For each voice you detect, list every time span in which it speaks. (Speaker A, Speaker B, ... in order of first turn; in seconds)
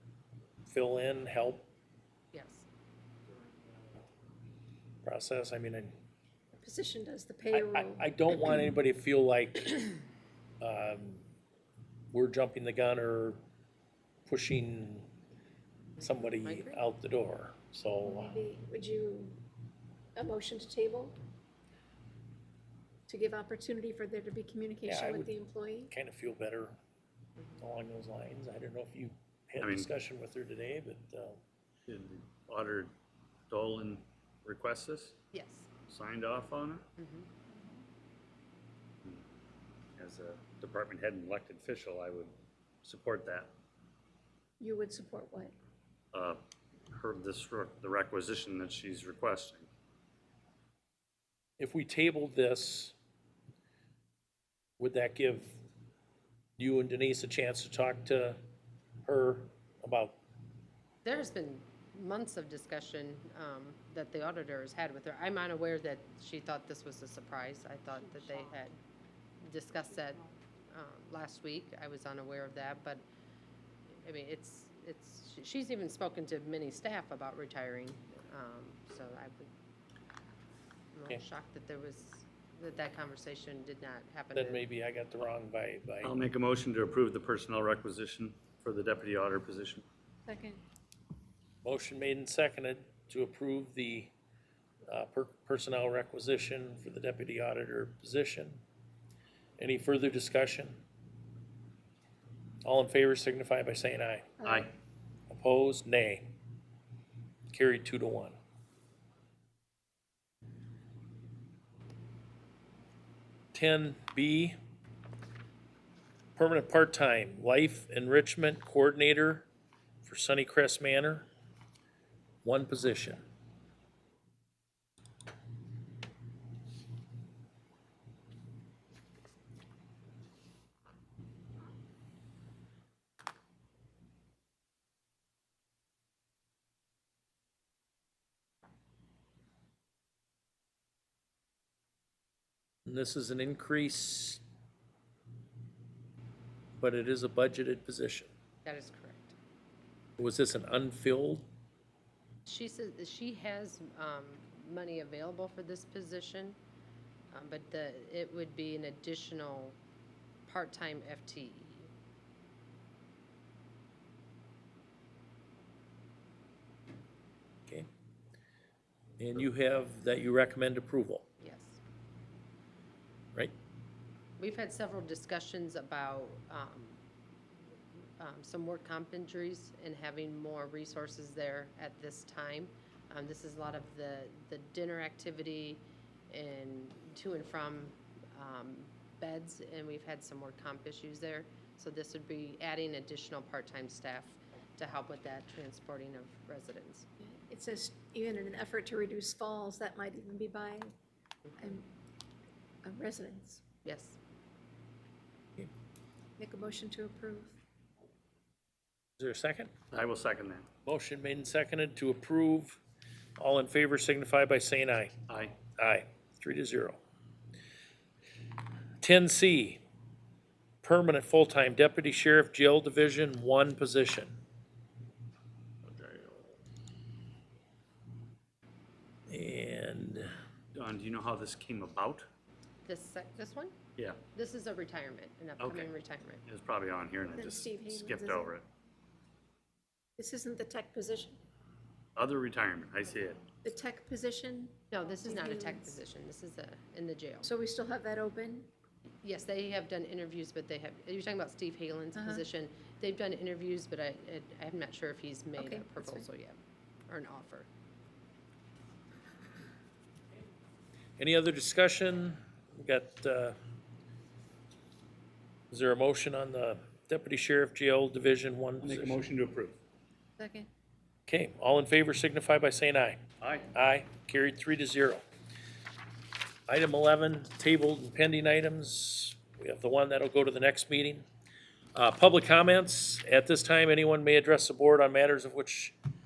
Speaker A: 0.7-1.7, 5.0-5.9, 7.5-10.0, 10.6-11.2, 12.1-13.4, 14.2-15.1, 16.0-18.4, 24.9-25.3, 25.9-26.8, 27.6-31.4, 51.6-52.9, 54.8-55.6, 56.6-58.4, 59.0-60.2, 84.3-86.2, 91.6-94.1, 94.9-98.6, 99.6-100.8, 102.6-104.3, 105.3-106.3, 107.5-108.3, 113.5-114.5, 116.3-119.5, 120.0-121.3, 122.4-123.2, 142.8-144.4, 146.8-148.3, 150.2-151.5, 169.2-171.2, 209.2-209.7, 210.8-212.8, 213.4-215.1, 215.8-217.0, 219.0-219.8, 220.8-224.4, 229.3-230.3, 261.2-263.6, 265.7-269.2, 271.3-275.2, 276.7-281.2, 281.9-285.9
Speaker B: 2.3-2.6, 16.0-16.8, 35.3-35.7, 37.0-37.3, 61.0-68.7, 69.4-73.0, 74.0-79.5, 80.9-84.6, 148.6-149.3, 152.4-156.6, 157.3-159.8, 160.5-161.9, 171.4-171.8, 174.4-177.0, 178.2-197.1, 203.8-204.2, 232.8-233.7, 234.3-236.4, 244.9-247.5, 249.2-257.7
Speaker C: 6.5-8.7, 18.0-19.4, 20.1-21.2, 23.1-25.9, 44.6-45.5, 90.3-90.6, 104.4-104.7, 197.5-200.9, 201.6-201.9, 202.8-203.6, 206.4-207.6, 237.3-238.6, 240.2-241.4, 243.6-246.0, 247.4-248.7, 252.1-252.4, 255.6-256.3, 270.4-270.6
Speaker D: 29.6-29.9, 31.9-32.9, 33.5-35.2, 35.9-36.9, 40.0-42.3, 42.8-43.5, 46.1-46.4, 46.9-49.7, 86.0-89.8, 209.9-210.7, 215.3-215.6, 230.7-232.2, 234.0-234.2, 235.6-235.9, 236.4-238.6, 242.2-243.5, 268.8-269.8, 273.4-273.7